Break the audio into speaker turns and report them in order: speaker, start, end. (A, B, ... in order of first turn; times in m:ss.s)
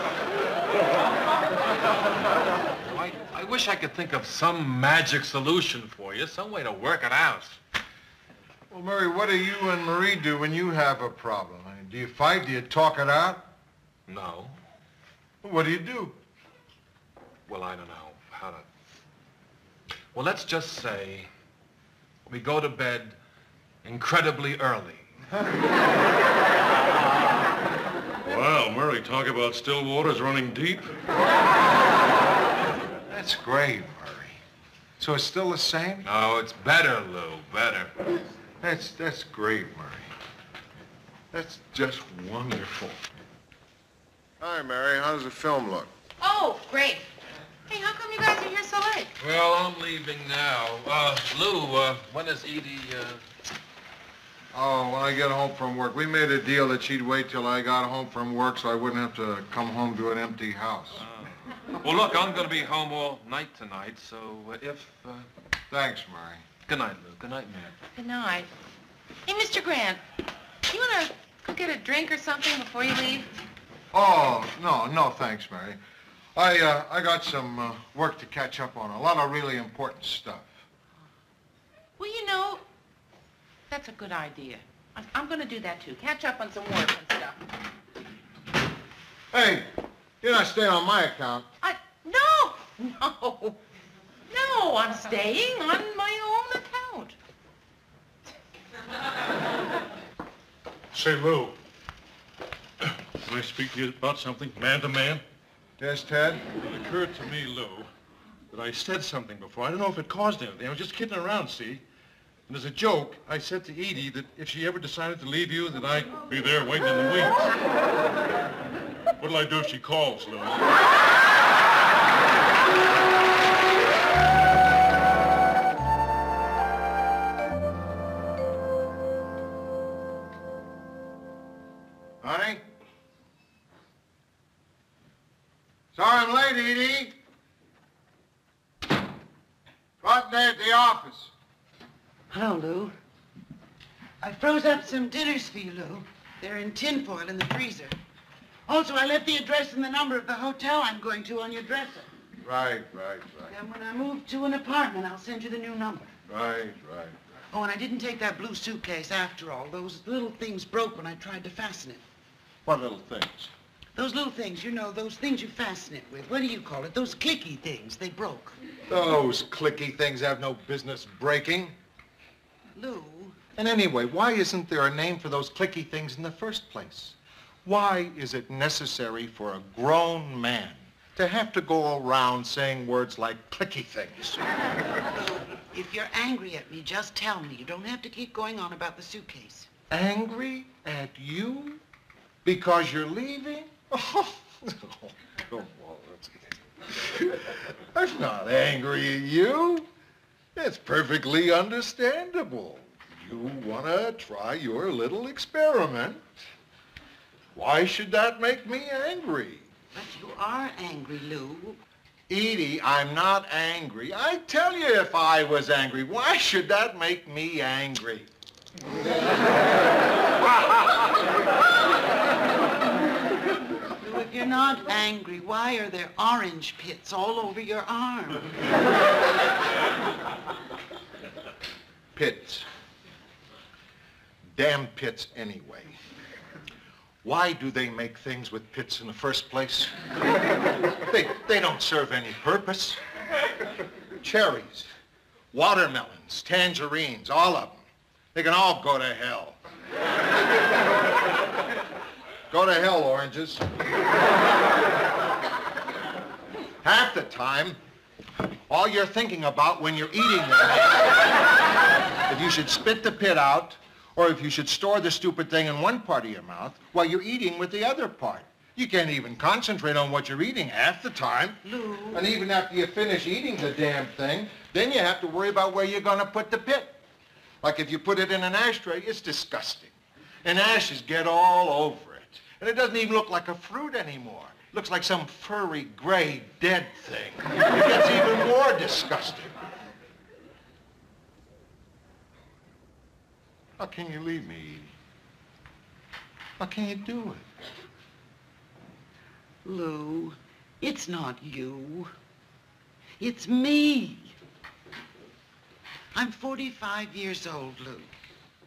0:02.8-0:07.6 A
0:08.7-0:13.5 B
0:14.1-0:14.6 A
0:15.4-0:16.2 B
0:17.5-0:18.6 A
0:20.1-0:21.3 A
0:22.2-0:23.2 A
0:23.8-0:25.0 A
0:28.2-0:30.9 C
0:33.1-0:34.4 B
0:35.0-0:36.1 B
0:36.0-0:37.9 A
0:38.6-0:40.1 B
0:41.3-0:43.0 B
0:44.4-0:45.9 B
0:46.2-0:47.1 D
0:47.7-0:49.1 D
0:49.2-0:53.2 A
0:54.5-1:01.0 B
1:01.0-1:05.3 A
1:05.7-1:06.4 B
1:06.6-1:07.8 A
1:08.0-1:08.5 D
1:09.2-1:10.0 D
1:10.6-1:13.3 D
1:13.9-1:15.8 B
1:16.3-1:20.5 B
1:22.0-1:22.6 D
1:23.7-1:27.4 D
1:29.3-1:29.7 B
1:30.2-1:31.5 B
1:31.6-1:33.6 D
1:34.3-1:37.2 D
1:40.9-1:41.6 C
1:42.8-1:45.2 C
1:45.8-1:46.5 B
1:46.6-1:47.9 C
1:48.5-1:51.8 C
1:52.5-1:57.5 C
1:59.2-2:00.7 C
2:12.2-2:12.6 B
2:15.9-2:17.1 B
2:20.0-2:21.3 B
2:22.3-2:22.9 E
2:24.2-2:28.0 E
2:28.7-2:32.1 E
2:32.4-2:33.5 B
2:33.5-2:36.1 E
2:36.3-2:37.2 B
2:37.5-2:42.0 E
2:42.6-2:43.5 B
2:43.9-2:48.6 E
2:48.9-2:51.7 B
2:52.7-2:53.4 E
2:53.6-3:04.4 B
3:05.4-3:09.7 E
3:09.9-3:11.8 B
3:12.4-3:19.9 B
3:20.5-3:26.4 B
3:27.5-3:29.7 B
3:29.9-3:31.8 E
3:32.3-3:38.3 B
3:44.0-3:48.5 E
3:52.1-3:52.6 B
3:54.5-3:56.0 B
3:57.2-3:59.9 B
4:01.1-4:03.0 B
4:04.2-4:04.9 B
4:05.5-4:07.8 B
4:08.3-4:09.6 B
4:12.5-4:13.7 B
4:16.8-4:17.8 B
4:18.7-4:21.0 B
4:22.3-4:31.6 B
4:31.6-4:32.2 E
4:32.1-4:37.0 B
4:37.6-4:49.5 B
4:53.8-4:54.9 B
4:56.6-4:57.4 B
4:59.6-5:02.1 E
5:03.2-5:04.4 E
5:06.1-5:08.1 E